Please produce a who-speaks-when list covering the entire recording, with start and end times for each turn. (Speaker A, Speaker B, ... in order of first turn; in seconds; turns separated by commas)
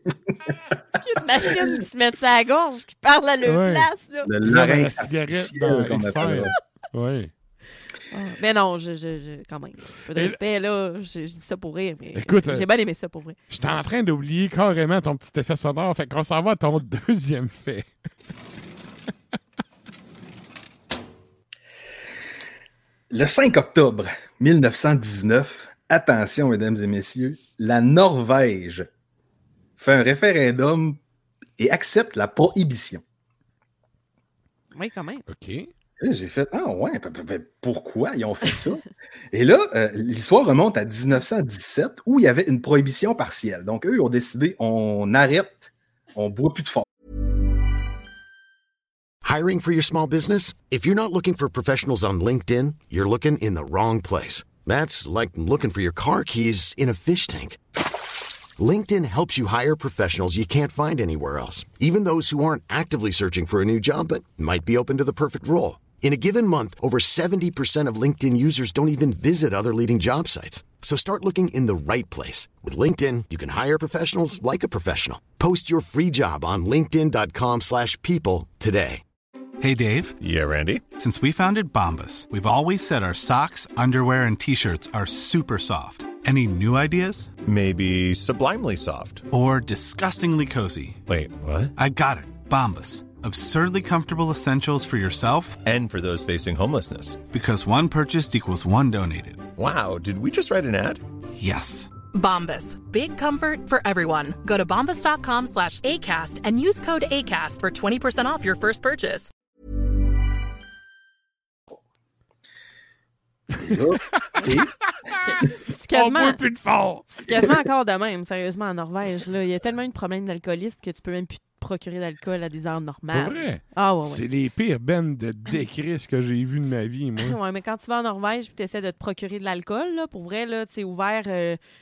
Speaker A: 1.0-4.3, Speaker B: 3.4-3.9, Speaker C: 4.2-6.5, Speaker B: 4.5-7.3, Speaker A: 8.1-13.3, Speaker B: 12.1-12.7, Speaker B: 13.5-17.9, Speaker C: 23.1-28.9, Speaker C: 29.8-31.0, Speaker C: 31.6-33.0, Speaker A: 34.7-35.2, Speaker B: 35.3-35.7, Speaker C: 36.0-46.9, Speaker D: 49.2-57.6, Speaker D: 58.6-79.0, Speaker E: 79.6-80.2, Speaker F: 80.2-80.8, Speaker E: 80.8-87.3, Speaker F: 87.4-89.2, Speaker E: 89.3-91.0, Speaker F: 91.1-91.7, Speaker E: 91.8-95.7, Speaker F: 95.6-97.2, Speaker E: 97.2-99.5, Speaker F: 99.6-101.0, Speaker E: 101.4-101.9, Speaker G: 102.1-109.3, Speaker C: 113.6-114.7, Speaker A: 115.2-116.4, Speaker B: 115.9-117.5, Speaker A: 117.1-124.2, Speaker B: 123.1-127.4, Speaker A: 127.2-131.6